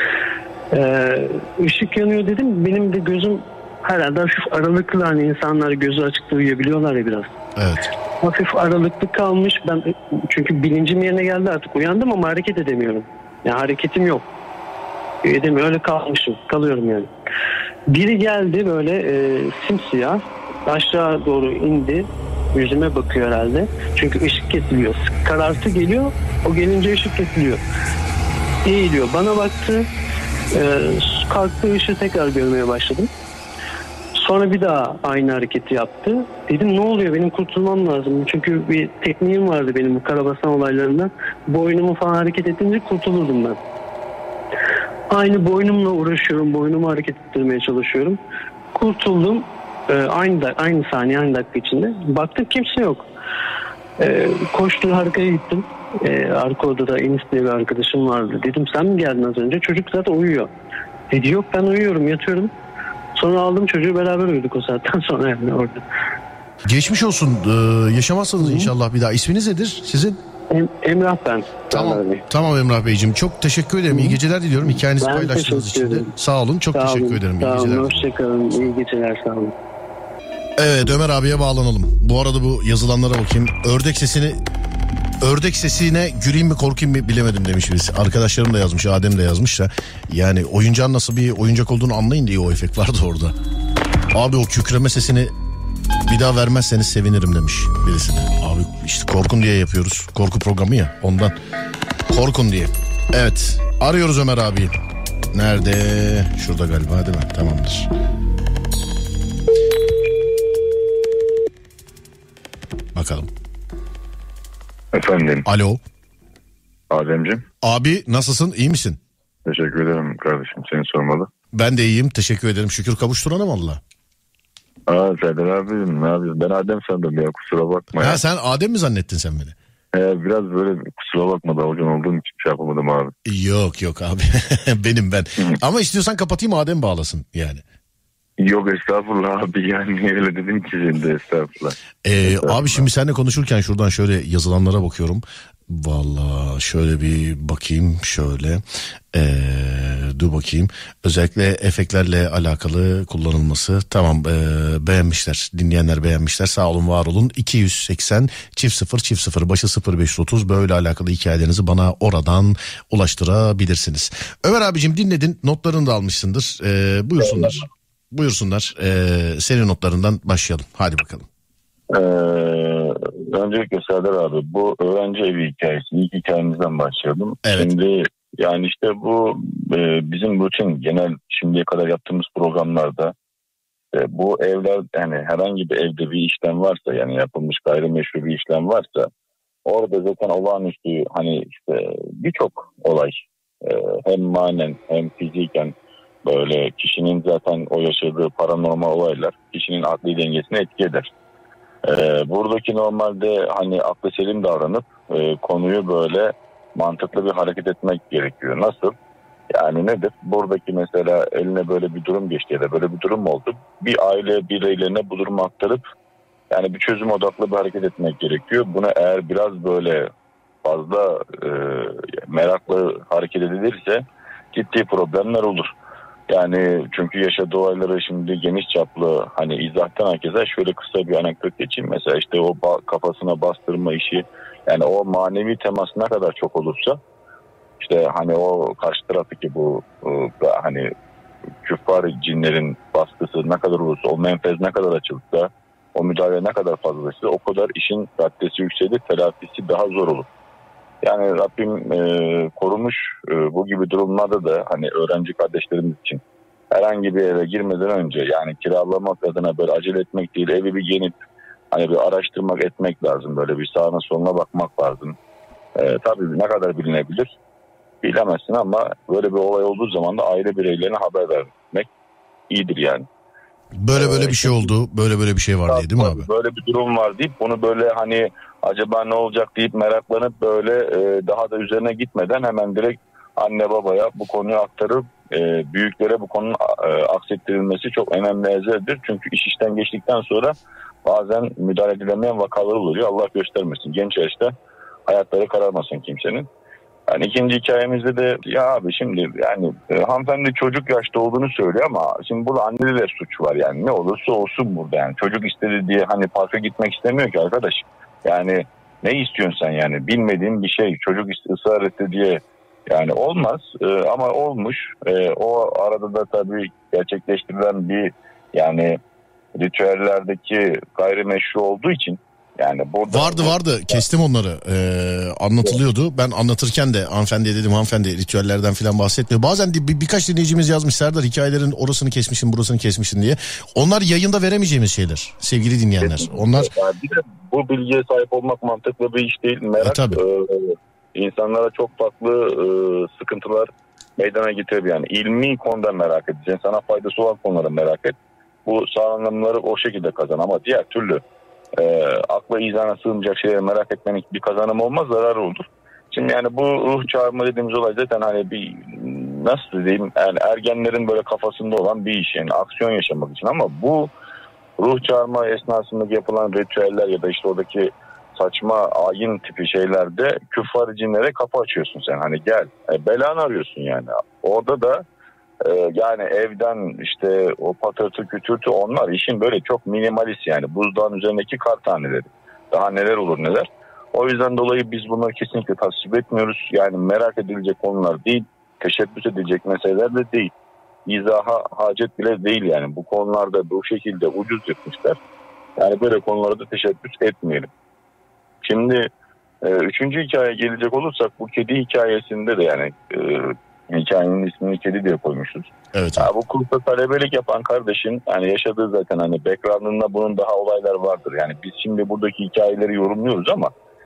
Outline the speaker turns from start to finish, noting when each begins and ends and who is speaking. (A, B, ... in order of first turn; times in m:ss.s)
0:00.7-0:07.3 A
0:07.6-0:07.9 B
0:08.2-0:14.3 A
0:15.2-0:17.1 A
0:17.9-0:27.6 A
0:28.6-0:29.9 A
0:30.5-0:33.1 A
0:34.2-0:43.6 A
0:45.1-0:48.2 A
0:48.7-0:53.1 A
0:54.0-1:00.5 A
1:01.1-1:02.5 A
1:03.2-1:05.8 A
1:06.7-1:10.2 B
1:08.4-1:08.7 A
1:10.5-1:12.2 A
1:11.7-1:18.1 B
1:15.0-1:16.1 A
1:16.7-1:19.6 A
1:20.6-1:24.4 B
1:25.2-1:33.3 B
1:34.1-1:35.3 B
1:36.0-1:41.4 B
1:42.1-1:44.7 B
1:45.3-1:47.9 B
1:53.0-1:53.3 B
1:54.9-1:55.5 C
1:55.5-1:55.8 B
1:56.9-1:57.4 C
1:57.6-1:59.0 B
1:59.4-2:01.3 C
2:01.5-2:03.8 B
2:04.9-2:08.2 C
2:08.0-2:09.6 B
2:09.9-2:13.1 C
2:13.3-2:17.6 B
2:18.4-2:22.9 C
2:22.0-2:51.3 B
2:47.2-2:47.6 C
2:51.9-3:03.1 C
2:57.4-2:57.7 B
3:03.9-3:09.1 C
3:09.6-3:15.7 C
3:16.2-3:21.1 C
3:21.9-3:28.9 C
3:29.5-3:35.8 C
3:36.5-3:40.1 C
3:40.6-3:45.7 C
3:46.3-3:57.0 C
3:57.8-4:00.9 C
4:01.6-4:10.3 C
4:11.0-4:16.2 C
4:16.7-4:21.1 C
4:21.7-4:25.2 C
4:25.8-4:27.3 C
4:28.0-4:31.9 C
4:32.5-4:33.1 C
4:33.8-4:36.3 B
4:34.0-4:34.7 C
4:35.7-4:54.5 C
4:55.1-4:56.5 C
4:57.1-5:19.0 C
5:19.6-5:24.0 C
5:23.1-5:36.7 B
5:36.0-5:51.2 C
5:39.8-5:40.2 B
5:51.8-6:04.1 C
6:04.8-6:15.0 C
6:15.6-6:30.5 C
6:31.1-6:35.2 C
6:35.8-6:37.7 C
6:38.6-6:39.1 C
6:39.6-6:53.7 C
6:45.9-6:46.3 B